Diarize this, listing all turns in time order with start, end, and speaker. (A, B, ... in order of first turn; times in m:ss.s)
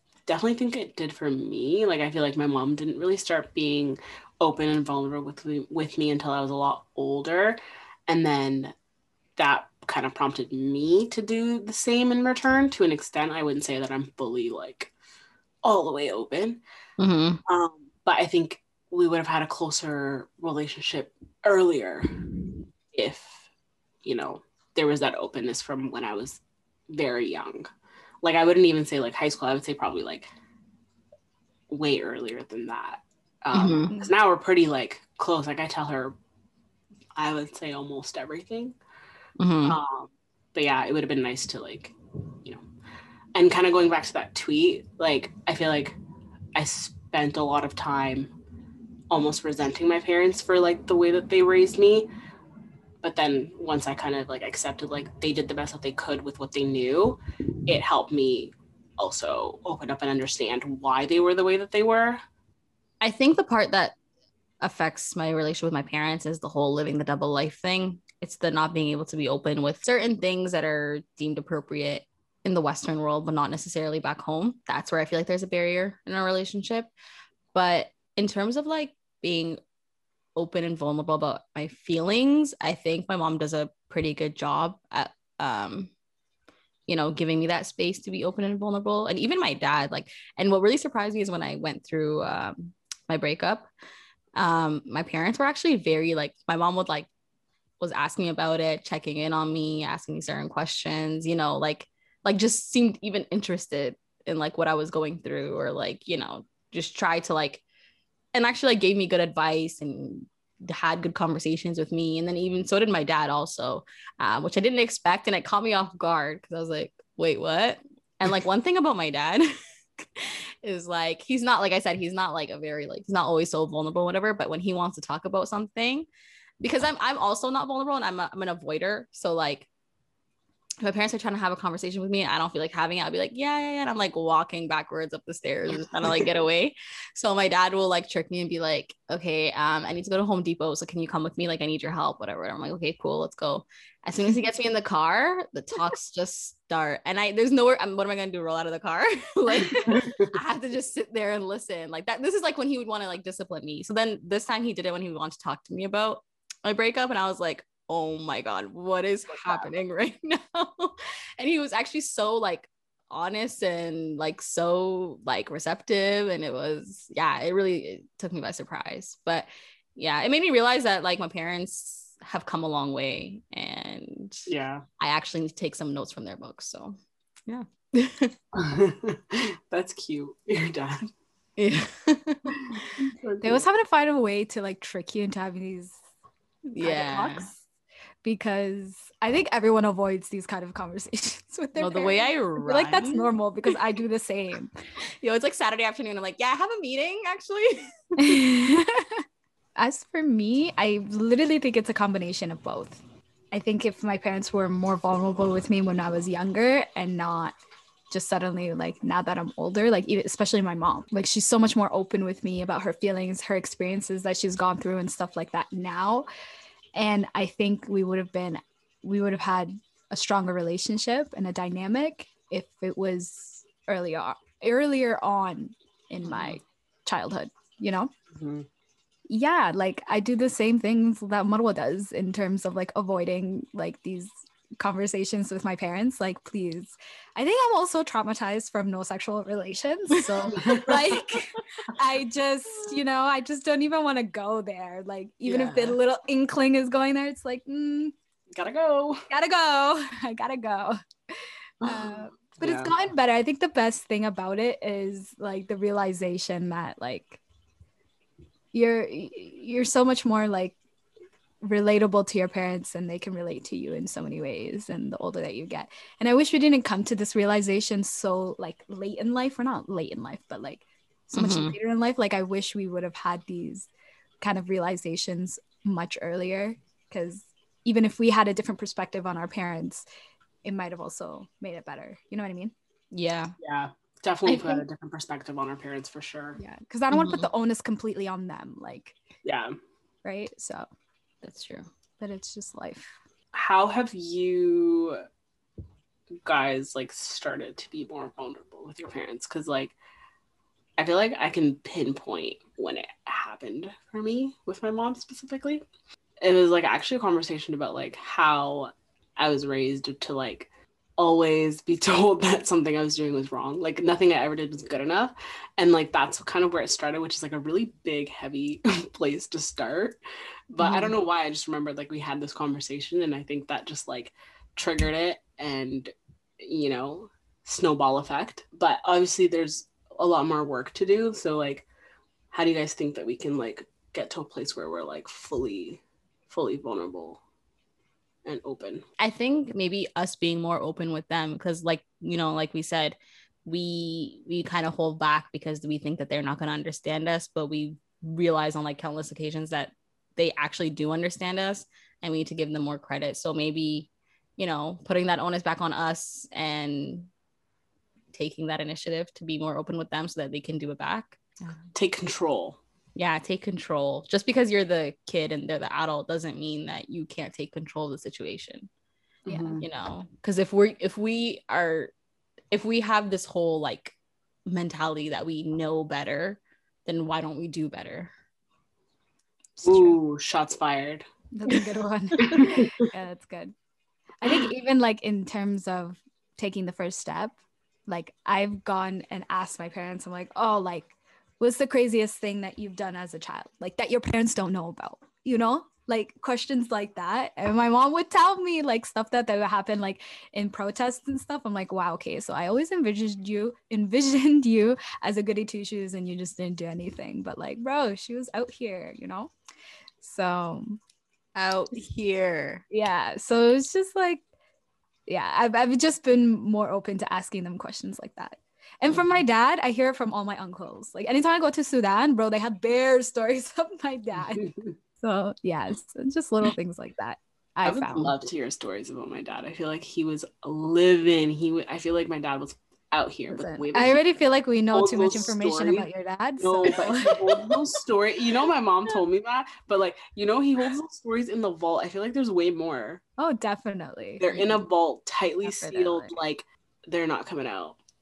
0:00.3-0:08.8 A
0:09.4-0:14.9 A
0:15.6-0:16.6 A
0:17.0-0:17.4 B
0:17.5-0:22.1 A
0:22.9-0:23.4 A
0:24.0-0:27.7 A
0:28.2-0:30.3 A
0:31.7-0:36.2 A
0:33.5-0:33.9 B
0:37.2-0:38.8 A
0:39.4-0:39.8 B
0:39.6-0:42.6 A
0:43.4-0:46.0 A
0:46.6-0:48.3 A
0:49.1-0:52.1 A
0:53.0-1:02.2 A
1:03.0-1:04.0 B
1:04.6-1:16.9 B
1:17.5-1:19.6 B
1:20.4-1:25.9 B
1:26.9-1:33.7 B
1:34.4-1:37.1 B
1:37.8-1:47.6 B
1:48.3-1:59.5 B
2:00.2-2:06.1 B
2:06.6-2:09.7 B
2:10.8-2:54.5 B
2:29.7-2:30.3 A
2:39.3-2:39.7 A
2:54.5-2:54.8 A
2:55.0-2:58.4 B
2:58.5-3:01.1 A
3:01.6-3:02.6 B
3:02.6-3:03.6 A
3:03.4-3:06.0 C
3:06.7-3:07.5 B
3:06.8-3:07.6 C
3:08.2-3:14.7 C
3:11.8-3:13.3 B
3:15.2-3:18.4 B
3:18.2-3:19.2 C
3:19.8-3:27.6 C
3:28.1-3:36.3 C
3:36.9-3:48.1 C
3:46.2-3:46.6 B
3:48.3-3:48.7 A
3:49.3-4:08.1 C
4:00.2-4:00.5 B
4:00.6-4:01.2 A
4:05.4-4:06.0 A
4:08.5-4:09.2 A
4:09.3-4:11.0 C
4:11.8-4:12.9 A
4:11.8-4:17.4 C
4:18.7-4:20.8 C
4:21.6-4:33.9 C
4:31.3-4:31.8 B
4:34.4-4:40.1 C
4:40.6-4:42.7 C
4:43.1-4:43.6 B
4:43.6-4:46.6 A
4:44.5-4:44.8 B
4:46.6-4:49.2 C
4:47.1-4:47.5 B
4:49.4-4:49.7 A
4:50.2-4:50.9 C
4:51.4-4:51.9 B
4:52.2-4:53.2 C
4:53.5-4:55.2 A
4:56.4-5:00.0 A
5:01.0-5:05.8 A
5:06.4-5:10.7 A
5:11.2-5:20.2 A
5:20.7-5:31.9 A
5:32.5-5:37.4 A
5:38.4-5:39.0 A
5:39.2-5:57.3 B
5:58.3-6:01.8 B
6:01.9-6:02.8 A
6:03.2-6:08.9 B
6:09.5-6:09.8 A
6:09.5-6:09.8 C
6:09.8-6:12.1 B
6:12.7-6:14.2 B
6:14.7-6:18.3 B
6:19.8-6:20.2 C
6:19.8-6:21.3 A
6:21.5-6:23.7 C
6:22.4-6:23.1 A
6:24.4-6:27.6 C
6:28.1-6:49.5 C
6:50.2-6:51.0 C
6:51.6-6:52.8 B
6:52.9-6:54.4 C
6:55.3-7:04.7 C
7:04.4-7:05.0 A
7:05.2-7:08.4 C
7:07.8-7:14.2 A
7:13.5-7:17.8 C
7:14.9-7:16.1 A
7:16.6-7:23.2 A
7:23.4-7:24.5 C
7:24.4-7:28.0 A
7:25.6-7:26.3 C